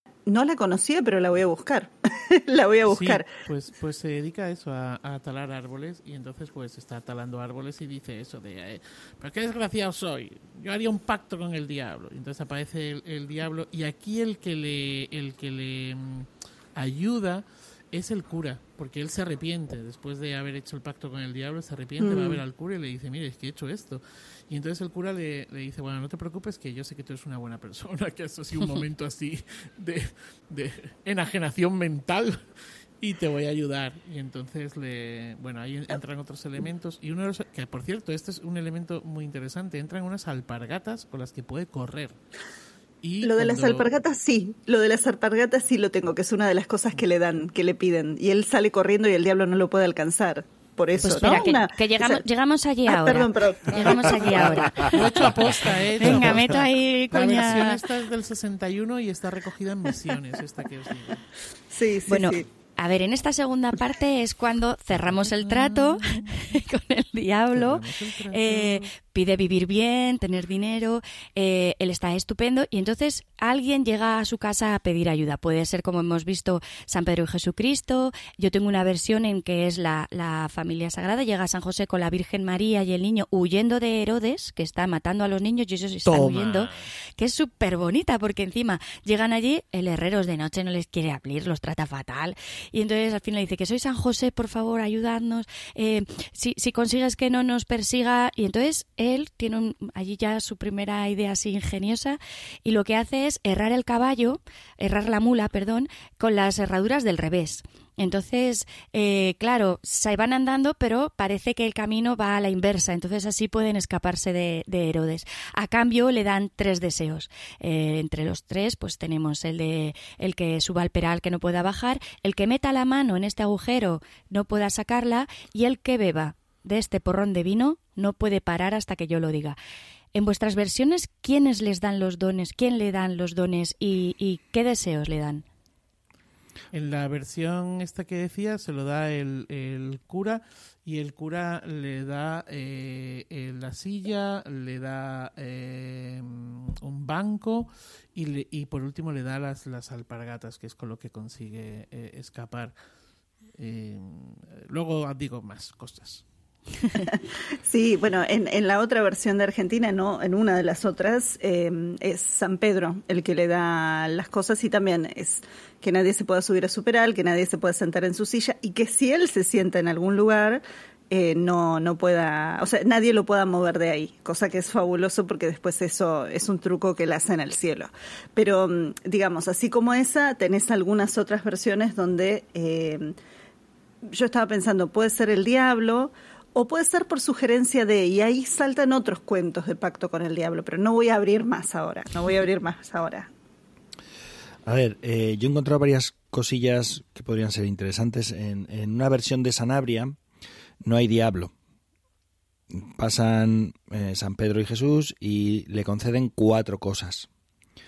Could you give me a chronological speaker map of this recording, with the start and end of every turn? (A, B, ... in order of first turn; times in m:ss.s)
0:00.3-0:03.3 A
0:02.8-0:32.4 B
0:22.0-0:22.4 A
0:33.0-0:42.2 B
0:43.0-0:43.9 B
0:43.2-0:52.2 A
0:51.0-0:57.8 C
0:52.9-0:54.9 A
0:54.5-1:01.2 B
1:01.7-1:02.4 A
1:02.1-2:09.6 C
1:05.1-1:06.4 B
1:07.5-1:08.9 B
1:26.0-1:26.9 B
2:10.1-2:15.4 C
2:16.7-2:32.7 B
2:33.6-2:36.2 B
2:37.1-3:03.1 A
3:04.1-3:13.3 A
3:14.6-3:20.2 D
3:20.8-3:21.5 D
3:22.7-3:27.3 D